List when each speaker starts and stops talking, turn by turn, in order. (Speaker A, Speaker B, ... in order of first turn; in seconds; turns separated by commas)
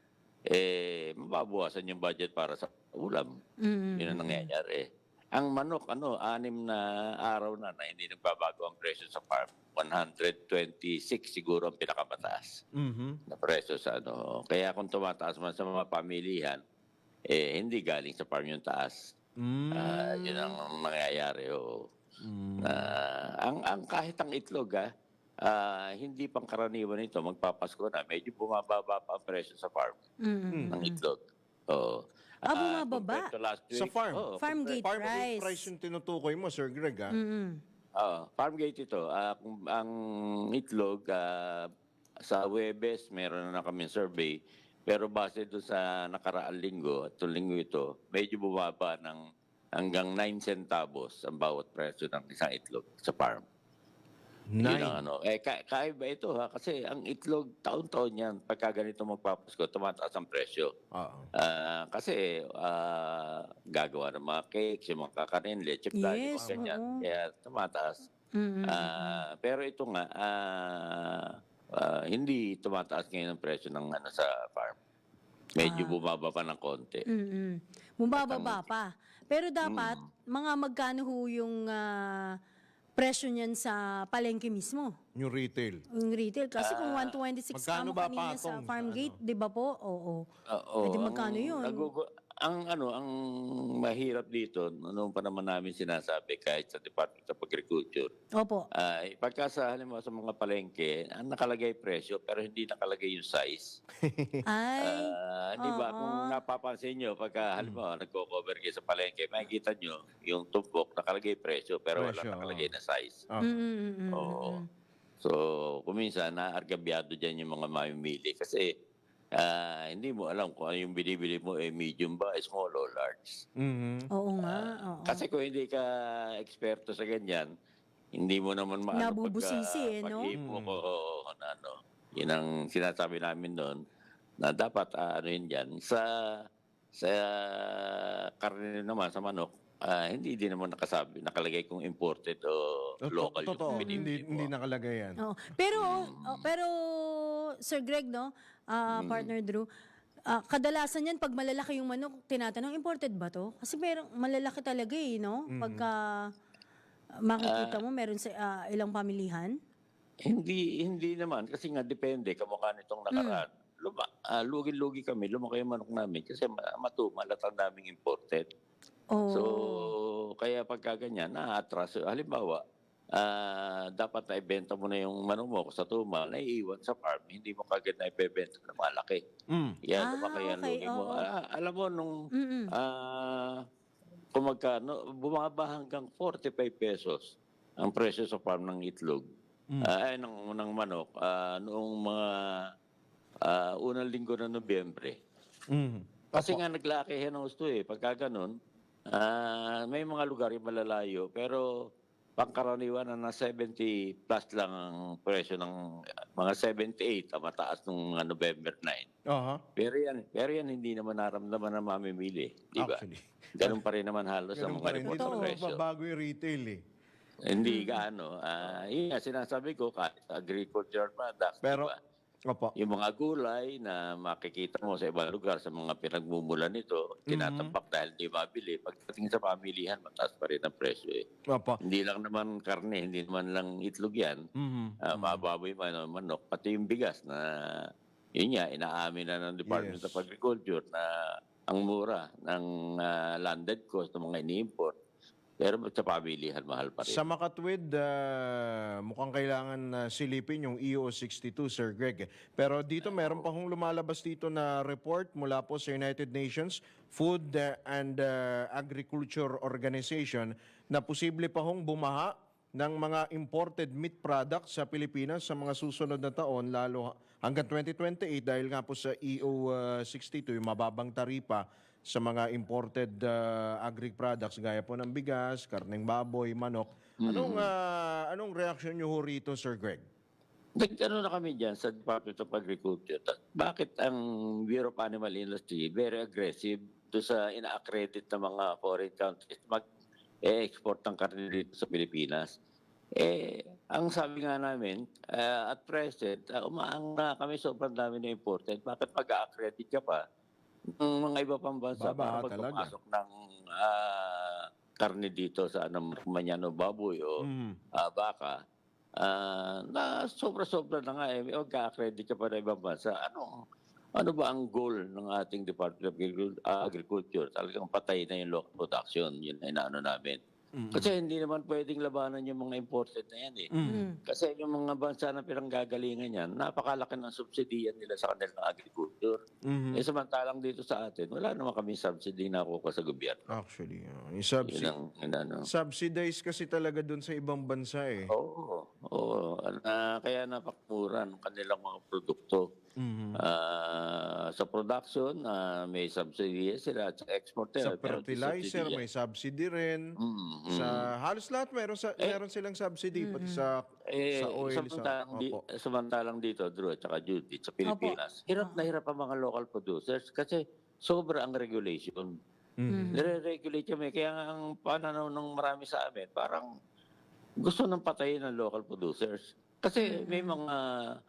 Speaker A: 0.5-3.3, Speaker B: 3.6-4.5, Speaker A: 4.0-12.6, Speaker C: 12.8-13.2, Speaker A: 13.3-16.6, Speaker A: 17.3-19.0, Speaker C: 19.4-20.5, Speaker A: 19.8-21.8, Speaker C: 22.2-22.9, Speaker A: 22.6-24.9, Speaker A: 25.4-30.0, Speaker B: 30.2-31.0, Speaker C: 30.5-30.8, Speaker A: 30.7-31.2, Speaker A: 31.7-34.8, Speaker B: 32.5-33.3, Speaker C: 33.7-34.2, Speaker B: 34.4-35.6, Speaker C: 34.8-37.1, Speaker B: 37.1-37.6, Speaker A: 38.0-39.9, Speaker A: 40.5-41.7, Speaker A: 42.3-44.4, Speaker A: 44.9-49.2, Speaker A: 49.8-53.4, Speaker C: 54.5-55.0, Speaker A: 54.6-60.7, Speaker C: 60.9-61.3, Speaker A: 61.4-68.0, Speaker B: 65.9-67.0, Speaker B: 68.3-69.2, Speaker A: 68.7-74.8, Speaker A: 75.6-77.0, Speaker B: 75.6-75.9, Speaker B: 77.1-82.3, Speaker A: 78.1-78.7, Speaker A: 79.6-80.0, Speaker B: 83.0-84.9, Speaker C: 85.2-85.8, Speaker B: 86.0-90.2, Speaker A: 86.6-87.1, Speaker C: 87.5-89.2, Speaker A: 90.5-98.1, Speaker B: 90.8-91.9, Speaker B: 98.4-98.7, Speaker A: 98.8-103.8, Speaker C: 104.0-104.4, Speaker B: 104.5-106.3, Speaker A: 104.8-113.2, Speaker C: 112.0-112.7, Speaker B: 113.4-114.6, Speaker A: 114.1-114.6, Speaker A: 115.2-118.7, Speaker A: 119.4-123.4, Speaker C: 123.6-124.1, Speaker B: 124.1-125.2, Speaker A: 124.4-127.5, Speaker A: 128.2-133.8, Speaker B: 128.9-130.3, Speaker C: 130.3-130.8, Speaker A: 134.4-136.4, Speaker A: 136.9-144.5, Speaker C: 143.0-145.2, Speaker B: 143.7-144.0, Speaker B: 145.2-149.7, Speaker A: 145.7-146.5, Speaker A: 148.9-149.3, Speaker B: 150.3-156.1, Speaker C: 155.5-155.9, Speaker B: 157.3-159.5, Speaker A: 157.4-157.8, Speaker A: 160.3-168.4, Speaker B: 163.1-163.4, Speaker B: 169.1-169.9, Speaker A: 169.3-172.6, Speaker A: 173.2-179.2, Speaker C: 179.5-179.8, Speaker A: 179.8-182.1, Speaker B: 180.0-181.2, Speaker B: 182.3-182.7, Speaker A: 182.7-183.6, Speaker A: 184.3-189.2, Speaker A: 189.8-192.7, Speaker A: 193.5-195.2, Speaker C: 195.7-196.6, Speaker A: 196.3-198.5, Speaker A: 199.1-201.6, Speaker A: 202.4-205.7, Speaker A: 206.4-209.1, Speaker C: 209.3-209.6, Speaker A: 209.8-213.0, Speaker C: 212.8-213.8, Speaker A: 213.6-215.8, Speaker C: 214.5-216.8, Speaker B: 215.0-215.5, Speaker A: 217.5-222.0, Speaker B: 217.6-218.0, Speaker C: 221.6-221.9, Speaker A: 222.8-231.2, Speaker C: 227.3-227.7, Speaker C: 231.5-231.8, Speaker A: 231.8-234.4, Speaker C: 234.6-235.4, Speaker A: 235.1-237.5, Speaker A: 238.4-241.1, Speaker C: 239.7-240.2, Speaker A: 241.7-244.9, Speaker A: 245.6-247.2, Speaker C: 247.0-280.0, Speaker A: 253.0-253.4, Speaker A: 277.2-277.7, Speaker A: 280.8-289.8, Speaker A: 290.4-292.5, Speaker A: 293.2-300.2, Speaker A: 301.0-307.4, Speaker C: 302.0-302.9, Speaker C: 307.4-307.8, Speaker A: 307.9-308.6, Speaker A: 309.2-313.5, Speaker A: 314.2-320.4, Speaker C: 320.8-321.1, Speaker A: 320.9-323.7, Speaker C: 323.7-324.0, Speaker B: 323.9-324.2, Speaker A: 324.2-329.4, Speaker C: 329.7-330.0, Speaker A: 329.9-333.4, Speaker C: 333.5-334.9, Speaker A: 334.7-335.6, Speaker C: 335.7-338.3, Speaker A: 338.3-342.6, Speaker C: 343.0-343.4, Speaker A: 343.4-349.0, Speaker C: 347.8-350.0, Speaker A: 350.2-351.1, Speaker C: 350.7-353.8, Speaker B: 353.2-353.6, Speaker A: 354.1-362.3, Speaker C: 354.3-355.6, Speaker B: 357.8-358.8, Speaker C: 362.8-363.1, Speaker B: 362.9-363.3, Speaker A: 363.1-366.6, Speaker A: 367.6-370.8, Speaker B: 370.0-370.6